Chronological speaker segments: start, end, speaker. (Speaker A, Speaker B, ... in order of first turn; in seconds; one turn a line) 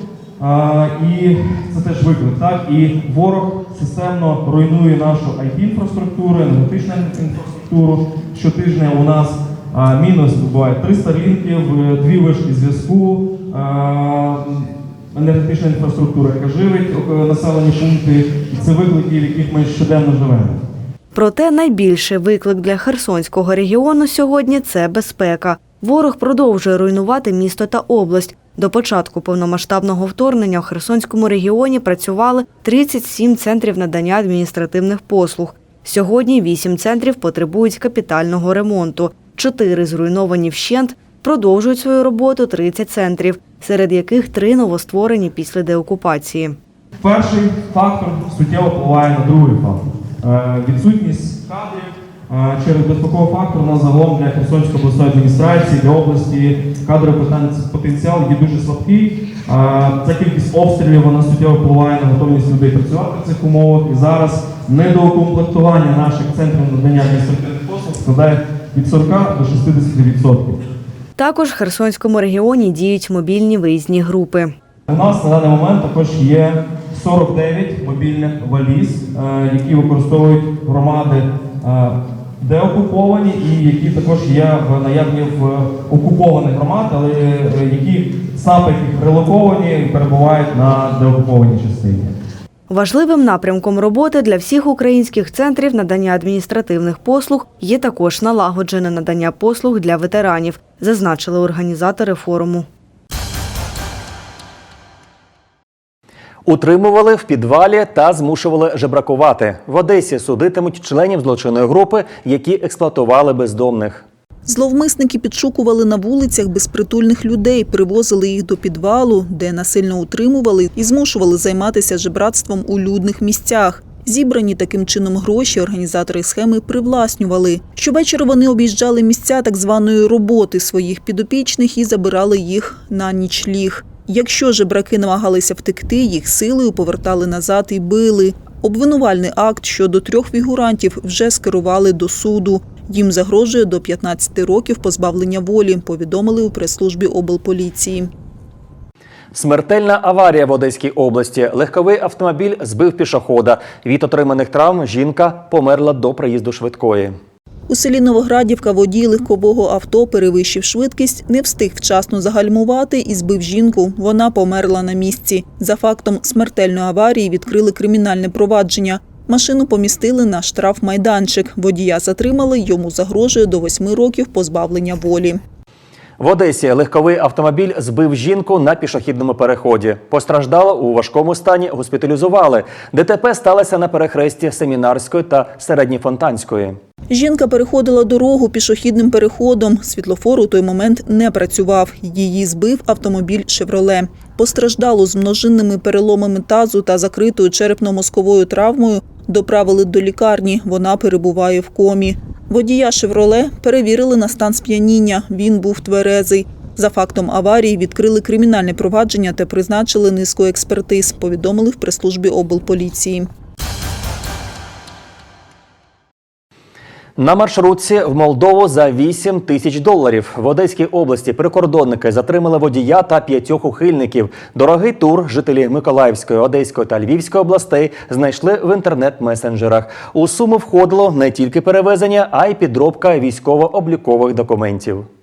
Speaker A: 0.4-20.6
Speaker B: 21.1-46.6
Speaker A: 47.0-70.6
Speaker B: 71.2-74.5
Speaker A: 74.9-92.2
Speaker B: 92.7-102.7
Speaker C: 106.4-114.0
Speaker D: 114.5-148.1
Speaker C: 149.3-157.2
Speaker D: 157.7-175.4
Speaker C: 176.2-186.8
Speaker D: 187.1-213.3
Speaker C: 217.2-235.1